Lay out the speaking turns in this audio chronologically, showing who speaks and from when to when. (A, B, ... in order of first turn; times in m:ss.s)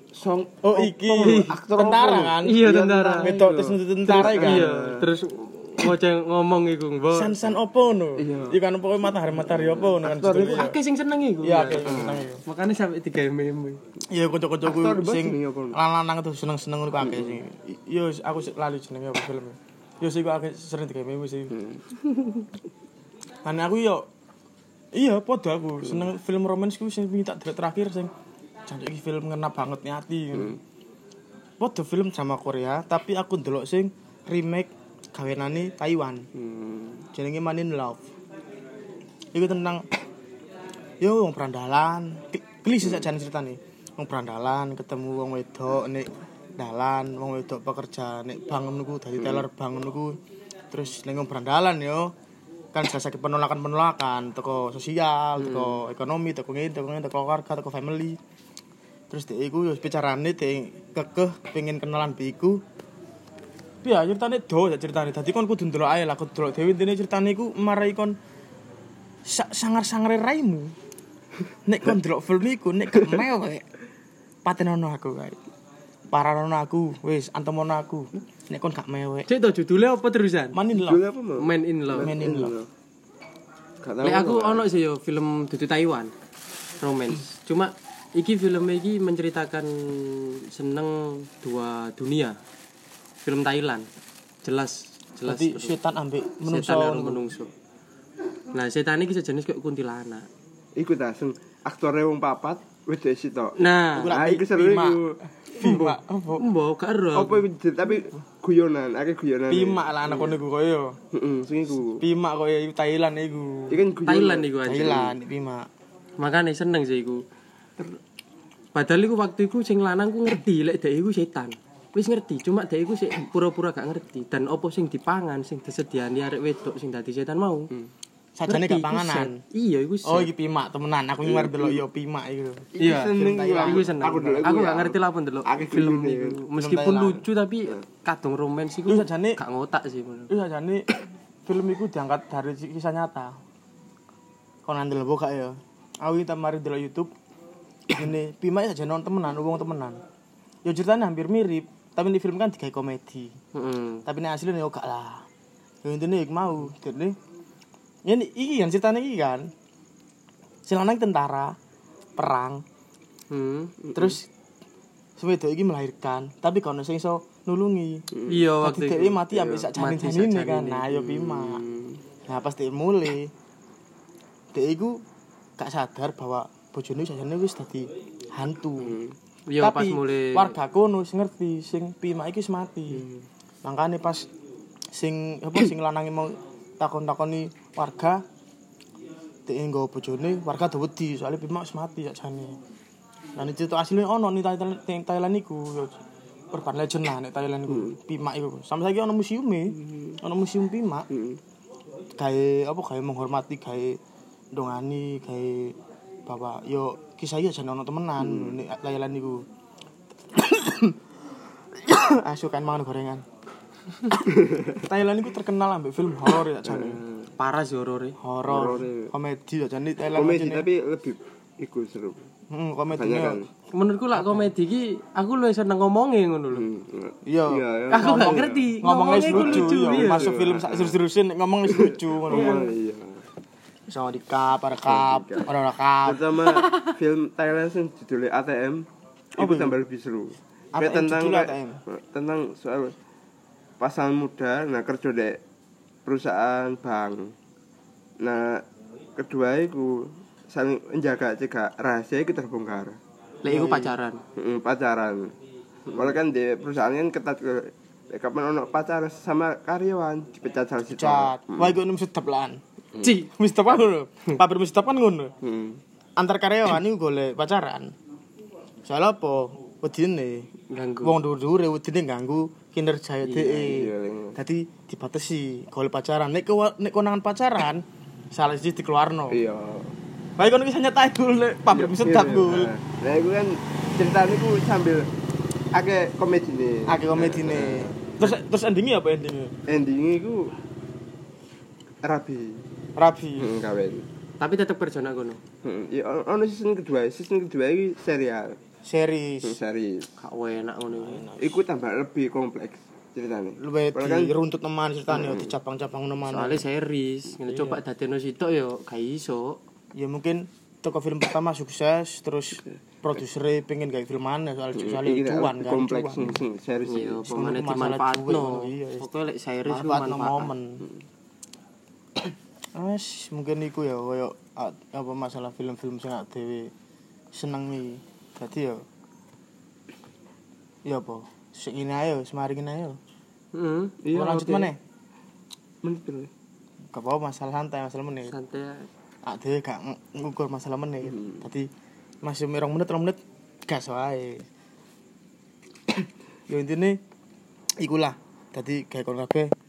0:00.1-0:05.1 A
0:00.6-0:04.7 B
0:01.2-0:01.5 C
0:02.4-0:03.3 C
0:04.0-0:07.4 C
0:07.1-0:10.8 B
0:08.2-0:08.6 A
0:09.4-0:10.6 A
0:10.1-0:13.8 C
0:11.4-0:12.4 B
0:11.8-0:12.3 A
0:14.1-0:21.5 B
0:14.6-0:15.8 A
0:17.0-0:17.4 A
0:21.5-0:22.5 A
0:23.4-0:24.1 B
0:24.9-0:28.1 B
0:28.7-0:30.6 B
0:30.3-0:30.6 A
0:31.6-0:36.3 B
0:36.4-0:37.1 A
0:37.1-0:38.1 B
0:39.3-0:39.9 B
0:41.0-0:50.2 B
0:49.2-0:49.4 A
0:50.7-0:52.1 B
0:52.7-0:58.2 B
0:55.4-0:55.8 C
0:59.1-1:02.6 B
1:03.8-1:08.2 B
1:09.3-1:10.7 B
1:11.7-1:13.7 B
1:13.0-1:13.2 A
1:14.4-1:15.4 B
1:16.1-1:19.3 B
1:19.3-1:20.6 C
1:20.5-1:21.0 B
1:20.8-1:22.7 A
1:21.4-1:22.2 C
1:22.0-1:22.6 B
1:23.8-1:24.6 A
1:24.0-1:26.1 C
1:26.8-1:32.4 C
1:33.2-1:33.9 C
1:34.4-1:35.8 C
1:35.2-1:37.2 B
1:36.4-1:37.5 C
1:38.5-1:40.3 C
1:40.8-1:45.2 A
1:43.6-1:44.1 C
1:43.9-1:46.4 B
1:45.6-1:47.4 C
1:47.2-1:50.3 A
1:49.5-1:51.0 B
1:51.1-1:52.0 A
1:52.0-1:53.8 B
1:53.7-1:55.0 A
1:54.1-1:55.1 C
1:54.7-1:55.7 B
1:56.2-1:57.2 C
1:58.7-2:07.7 C
2:08.4-2:09.4 B
2:08.5-2:10.3 C
2:10.0-2:14.4 B
2:11.2-2:11.8 A
2:12.8-2:16.4 A
2:12.8-2:20.3 C
2:16.5-2:17.2 B
2:18.9-2:19.4 B
2:20.3-2:20.9 B
2:21.5-2:23.4 B
2:24.7-2:27.1 B
2:27.9-2:30.0 B
2:30.6-2:33.3 B
2:33.5-2:34.0 C
2:34.1-2:35.2 B
2:35.8-2:37.2 B
2:38.1-2:39.5 B
2:40.7-2:41.6 B
2:42.2-2:42.6 B
2:43.3-2:43.8 C
2:43.8-2:44.2 A
2:44.0-2:44.3 B
2:45.2-2:48.1 B
2:48.1-2:48.5 A
2:48.3-2:49.2 C
2:48.6-2:51.6 B
2:49.3-2:49.7 A
2:49.8-2:50.9 C
2:50.9-2:52.0 A
2:52.3-2:53.3 B
2:54.5-2:55.0 B
2:55.6-2:59.0 B
2:58.8-2:59.2 A
2:59.5-3:00.6 C
2:59.6-3:03.0 B
3:02.9-3:03.2 A
3:03.6-3:04.3 B
3:05.0-3:08.2 B
3:09.5-3:12.6 B
3:13.4-3:16.0 B
3:16.5-3:21.1 B
3:17.7-3:18.0 A
3:19.7-3:20.2 A
3:21.1-3:21.4 A
3:22.2-3:24.0 B
3:24.5-3:29.5 B
3:28.2-3:28.6 A
3:30.3-3:31.0 B
3:31.7-3:33.2 B
3:34.2-3:34.8 A
3:34.8-3:37.0 B
3:36.7-3:37.3 A
3:37.4-3:38.2 C
3:38.2-3:40.7 B
3:38.5-3:39.1 A
3:40.2-3:42.3 A
3:42.5-3:43.4 B
3:42.9-3:43.5 A
3:43.7-3:46.7 C
3:44.1-3:44.5 B
3:46.5-3:51.0 A
3:47.2-3:52.7 B
3:47.9-3:50.3 C
3:51.7-3:53.2 A
3:53.9-3:56.7 B
3:54.9-3:55.5 A
3:56.0-3:58.8 A
3:59.4-4:03.0 A
3:59.4-3:59.8 B
4:00.7-4:01.8 B
4:03.8-4:05.4 A
4:06.1-4:07.3 A
4:08.2-4:08.6 A
4:09.2-4:13.0 A
4:13.4-4:14.2 C
4:13.4-4:14.0 B
4:14.4-4:15.4 A
4:15.9-4:21.8 A
4:20.9-4:22.6 B
4:23.0-4:23.3 C
4:23.3-4:25.3 B
4:25.4-4:25.8 A
4:26.2-4:27.9 B
4:28.9-4:30.5 B
4:30.7-4:31.2 C
4:31.0-4:39.4 B
4:33.2-4:33.7 C
4:33.6-4:34.4 A
4:39.3-4:39.9 A
4:40.4-4:42.7 B
4:41.7-4:45.1 A
4:45.7-4:47.9 A
4:46.9-4:49.6 B
4:49.7-4:50.5 A
4:52.0-4:52.6 A
4:53.0-4:53.5 B
4:53.4-4:54.1 A
4:54.4-4:55.4 C
4:55.6-4:58.6 A
4:58.8-4:59.6 B
4:59.4-5:00.1 A
5:00.2-5:01.3 C
5:00.9-5:01.6 B
5:01.4-5:04.4 A
5:03.6-5:06.6 B
5:05.1-5:05.5 A
5:06.3-5:09.6 C
5:07.5-5:07.8 B
5:10.0-5:16.4 B
5:14.7-5:17.7 A
5:16.9-5:20.5 C
5:17.3-5:19.1 B
5:19.6-5:20.8 B
5:22.8-5:26.7 B
5:27.3-5:28.9 B
5:30.8-5:33.0 B
5:33.5-5:34.0 C
5:34.0-5:34.7 A
5:34.1-5:34.8 B
5:35.8-5:36.3 A
5:36.9-5:38.4 B
5:38.3-5:38.9 C
5:39.2-5:41.7 B
5:41.0-5:41.5 A
5:42.2-5:44.5 B
5:46.5-5:47.0 B
5:47.8-5:49.5 B